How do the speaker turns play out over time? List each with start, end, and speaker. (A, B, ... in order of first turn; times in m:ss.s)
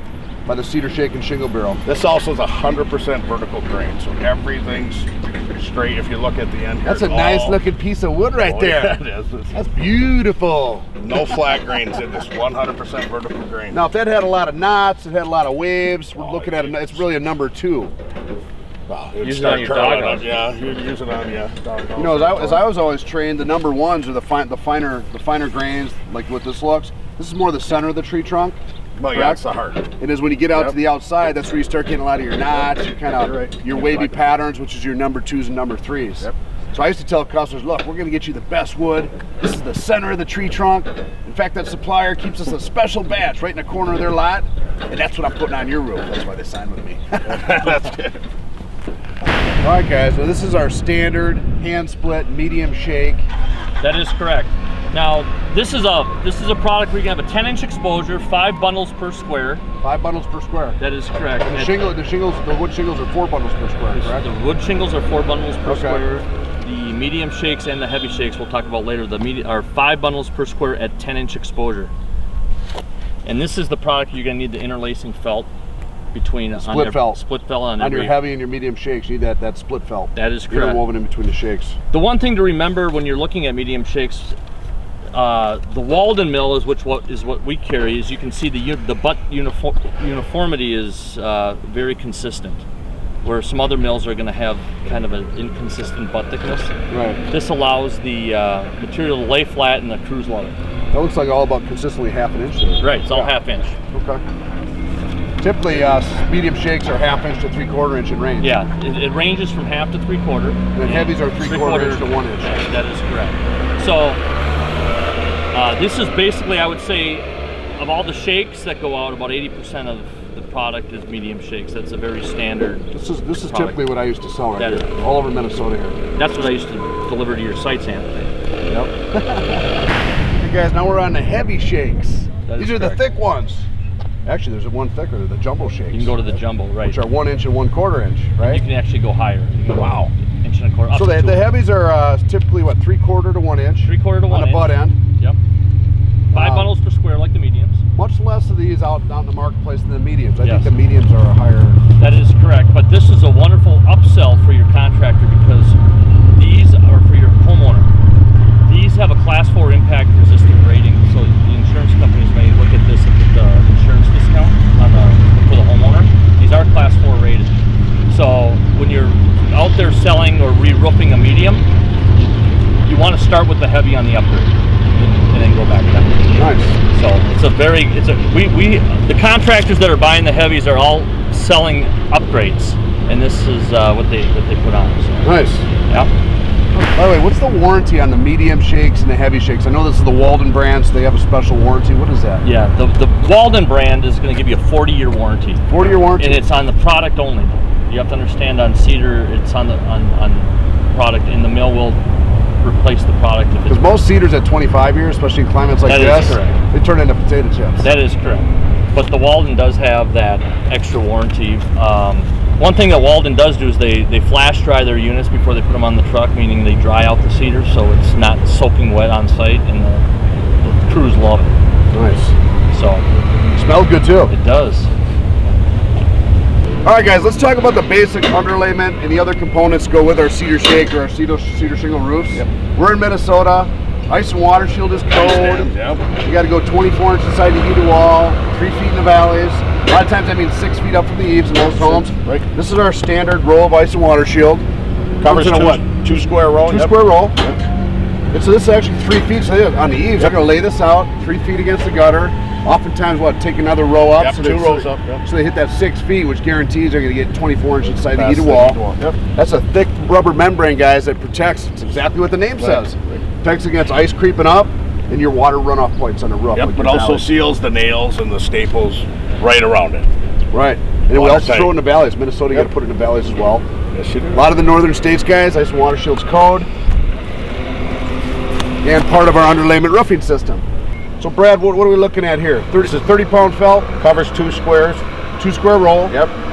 0:00.5-0:01.8 A
0:01.8-0:07.6 B
0:06.8-0:09.0 A
0:08.4-0:09.6 B
0:09.5-0:10.9 A
0:11.0-0:13.8 B
0:13.7-0:17.9 A
0:16.2-0:16.9 B
0:18.9-0:22.7 B
0:19.2-0:20.3 C
0:22.0-0:29.4 A
0:29.0-0:29.9 B
0:30.0-0:47.4 A
0:30.5-0:30.8 B
0:33.1-0:34.2 B
0:47.3-0:48.2 B
0:49.6-0:53.3 A
0:53.8-0:59.6 C
0:59.8-1:00.8 A
1:00.8-1:01.9 C
1:01.4-1:04.2 A
1:03.9-1:11.9 C
1:05.6-1:06.0 A
1:13.2-1:15.5 C
1:16.1-1:18.2 C
1:16.6-1:17.2 A
1:17.8-1:21.8 A
1:20.2-1:20.8 C
1:21.9-1:24.4 C
1:25.1-1:32.6 C
1:33.2-1:36.7 C
1:36.9-1:37.2 A
1:37.3-1:40.6 C
1:40.9-1:43.3 A
1:42.8-1:43.8 C
1:43.9-1:44.2 A
1:45.4-1:48.5 A
1:48.4-1:54.2 C
1:50.7-1:52.6 A
1:55.5-2:03.9 C
2:02.9-2:06.0 A
2:04.6-2:04.9 C
2:06.2-2:08.3 C
2:08.6-2:09.8 A
2:10.4-2:13.6 A
2:12.5-2:13.0 C
2:14.2-2:18.6 A
2:15.9-2:17.0 C
2:18.4-2:21.5 C
2:19.7-2:20.1 A
2:20.9-2:25.0 A
2:23.8-2:25.4 C
2:26.3-2:26.7 A
2:26.3-2:27.8 C
2:28.0-2:31.8 A
2:30.4-2:30.8 C
2:32.0-2:37.9 C
2:38.6-2:47.5 C
2:48.1-2:51.7 C
2:52.8-3:05.3 C
2:56.4-2:56.8 A
3:05.2-3:05.7 A
3:05.8-3:06.1 C
3:06.7-3:12.4 A
3:12.4-3:22.0 C
3:15.7-3:16.4 A
3:22.6-3:24.0 C
3:23.7-3:27.9 A
3:25.8-3:26.6 C
3:27.8-3:40.0 C
3:40.6-3:41.6 C
3:41.9-3:42.4 A
3:42.7-3:43.1 C
3:43.5-3:44.3 A
3:44.3-3:44.9 C
3:46.8-3:55.7 A
3:55.0-3:56.0 B
3:56.2-4:04.7 A
4:01.7-4:02.4 B
4:05.2-4:07.6 B
4:05.2-4:05.8 A
4:06.7-4:07.4 A
4:08.3-4:18.8 A
4:14.2-4:15.2 B
4:17.9-4:19.2 B
4:19.3-4:27.3 A
4:22.6-4:23.2 B
4:26.5-4:30.1 B
4:30.5-4:33.7 A
4:31.1-4:31.8 B
4:33.9-4:34.5 B
4:34.3-4:36.7 A
4:38.8-4:40.6 A
4:41.2-4:43.9 A
4:44.0-4:45.0 B
4:45.4-4:46.2 A
4:46.1-4:46.3 B